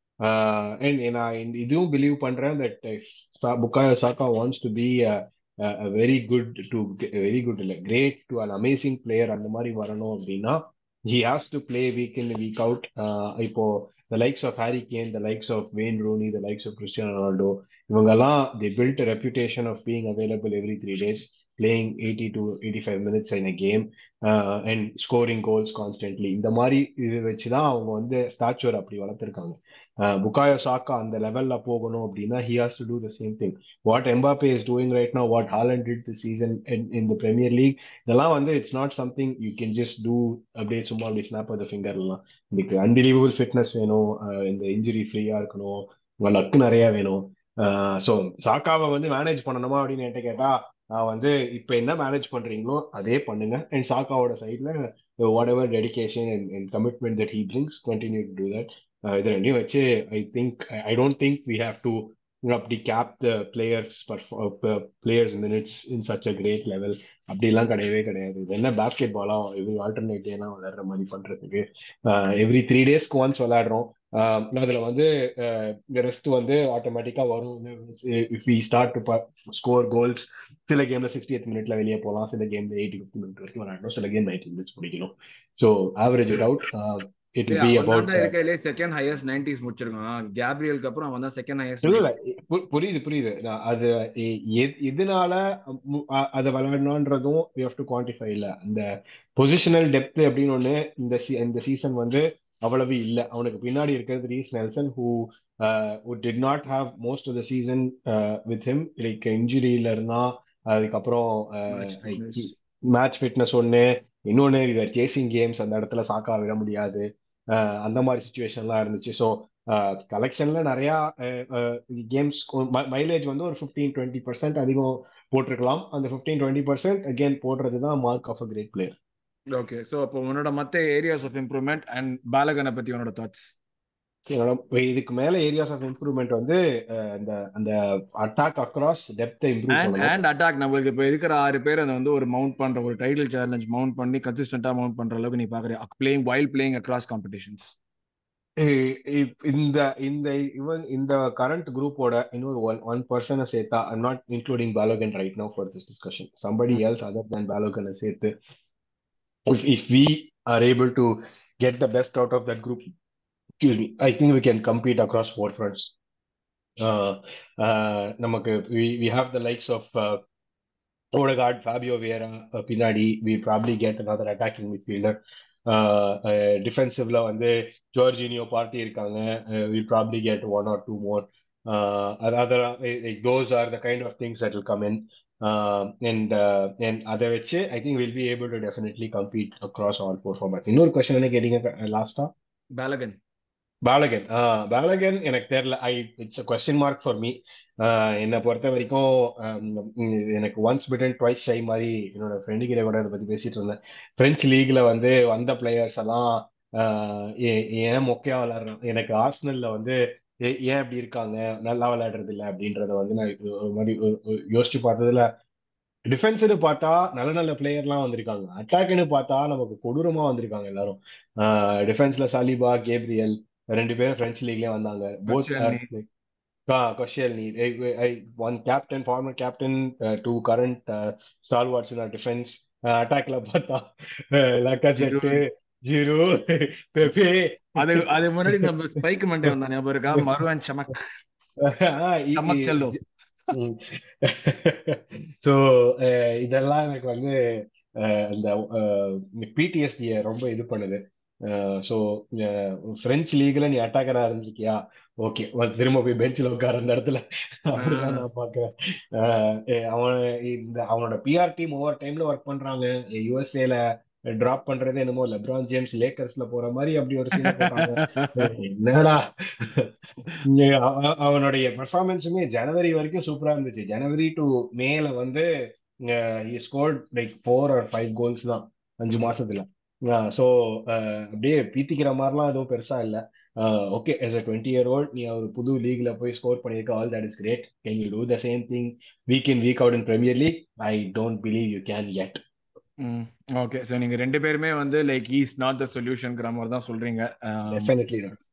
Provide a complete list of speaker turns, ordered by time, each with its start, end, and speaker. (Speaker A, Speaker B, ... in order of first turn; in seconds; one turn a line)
Speaker A: 0.2-88.3
Speaker B: 87.5-92.0
Speaker A: 91.8-98.8
Speaker A: 99.3-128.9
Speaker B: 111.7-112.5
Speaker B: 129.5-133.5
Speaker A: 134.3-140.1
Speaker B: 139.7-147.7
Speaker A: 148.6-158.3
Speaker A: 159.5-162.9
Speaker A: 163.6-165.9
Speaker A: 166.8-170.2
Speaker A: 171.1-192.3
Speaker B: 192.7-193.2
Speaker A: 193.8-215.3
Speaker A: 216.1-226.1
Speaker B: 225.3-225.8
Speaker A: 226.7-238.7
Speaker B: 235.0-235.4
Speaker B: 237.8-241.0
Speaker A: 241.6-243.0
Speaker B: 242.4-243.0
Speaker A: 243.5-247.3
Speaker A: 248.0-269.9
Speaker B: 257.8-258.2
Speaker B: 267.4-268.5
Speaker A: 270.4-275.5
Speaker A: 276.0-292.4
Speaker B: 293.0-297.9
Speaker A: 297.7-298.4